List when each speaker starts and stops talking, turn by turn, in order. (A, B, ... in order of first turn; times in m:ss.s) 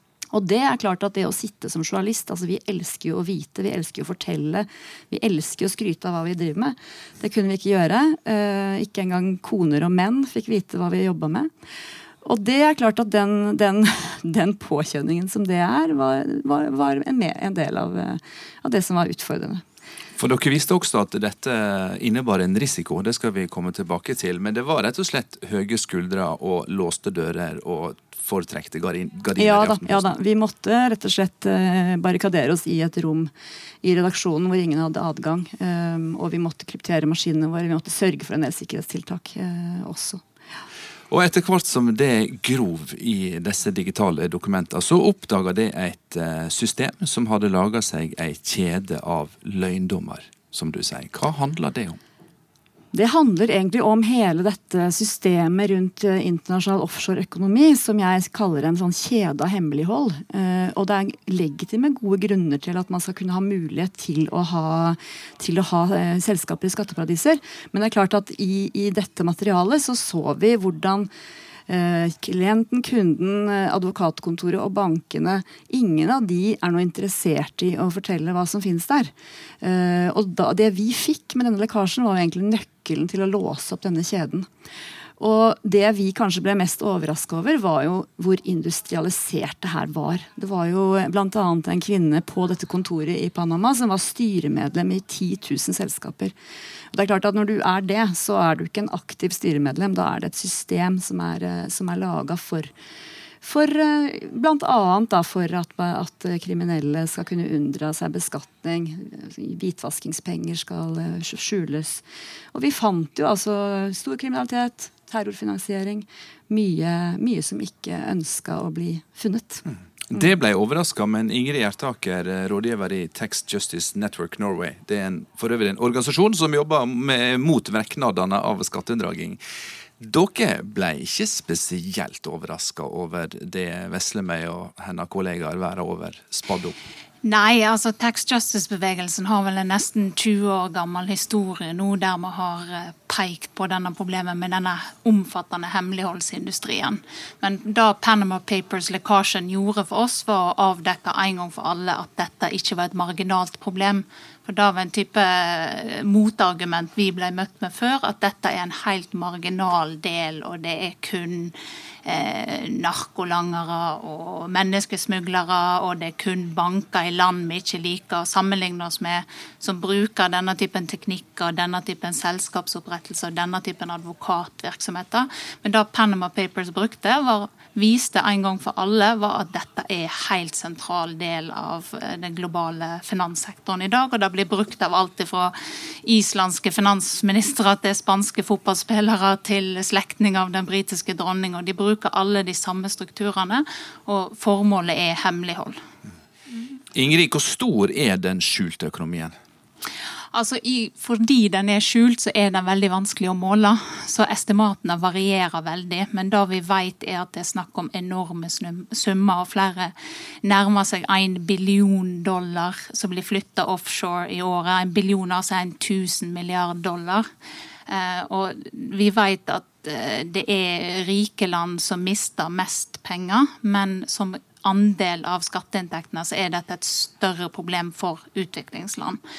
0:00.3-0:11.5 A
0:12.2-0:19.6 A
0:20.2-0:30.2 B
0:29.4-0:33.3 A
0:33.8-0:40.2 A
0:41.1-0:52.0 B
0:52.9-1:11.1 A
1:11.7-1:24.5 A
1:25.2-1:36.3 A
1:36.9-1:42.7 A
1:43.4-1:59.6 A
2:00.1-2:09.4 B
2:10.0-2:16.8 B
2:17.2-2:41.5 C
2:42.0-3:15.8 C
3:16.9-3:19.3 B
3:20.3-3:37.3 C
3:37.9-3:49.2 C